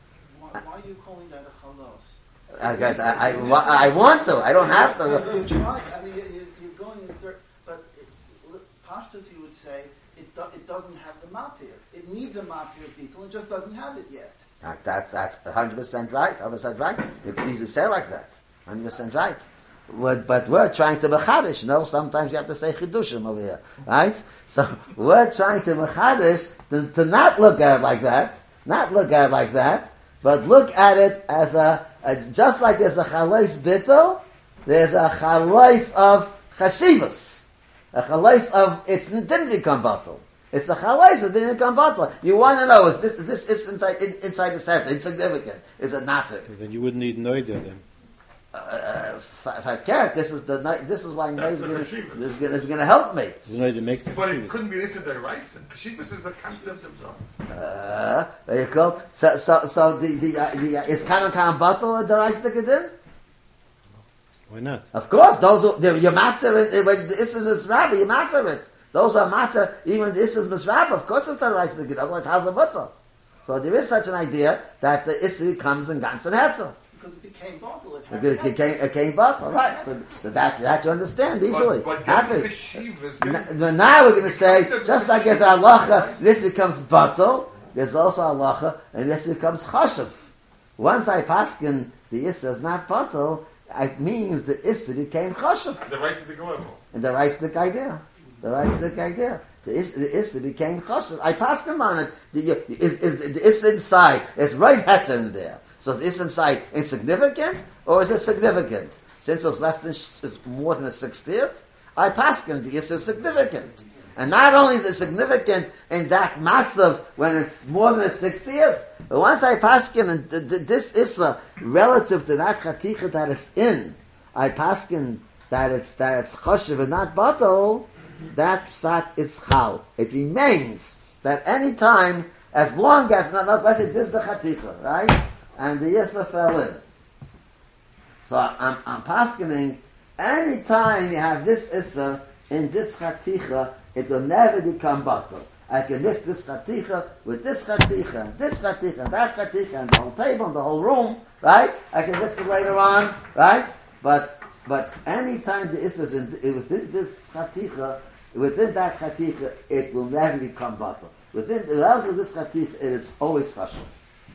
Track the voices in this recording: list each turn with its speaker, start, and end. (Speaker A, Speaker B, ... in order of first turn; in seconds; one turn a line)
Speaker A: 0.2-14.4
Speaker B: 2.6-5.4
Speaker B: 14.6-46.5
Speaker C: 46.5-47.8
Speaker B: 48.5-53.4
Speaker D: 51.4-52.3
Speaker C: 53.5-54.6
Speaker D: 54.1-57.2
Speaker A: 56.5-56.9
Speaker B: 57.5-62.9
Speaker C: 64.5-64.8
Speaker B: 64.9-72.9
Speaker B: 73.5-76.8
Speaker A: 76.9-78.8
Speaker B: 78.1-82.5
Speaker A: 79.5-80.0
Speaker D: 81.5-83.5
Speaker B: 83.2-90.2
Speaker D: 84.2-86.4
Speaker B: 90.8-95.9
Speaker D: 95.8-96.8
Speaker B: 96.9-136.8
Speaker B: 138.2-163.9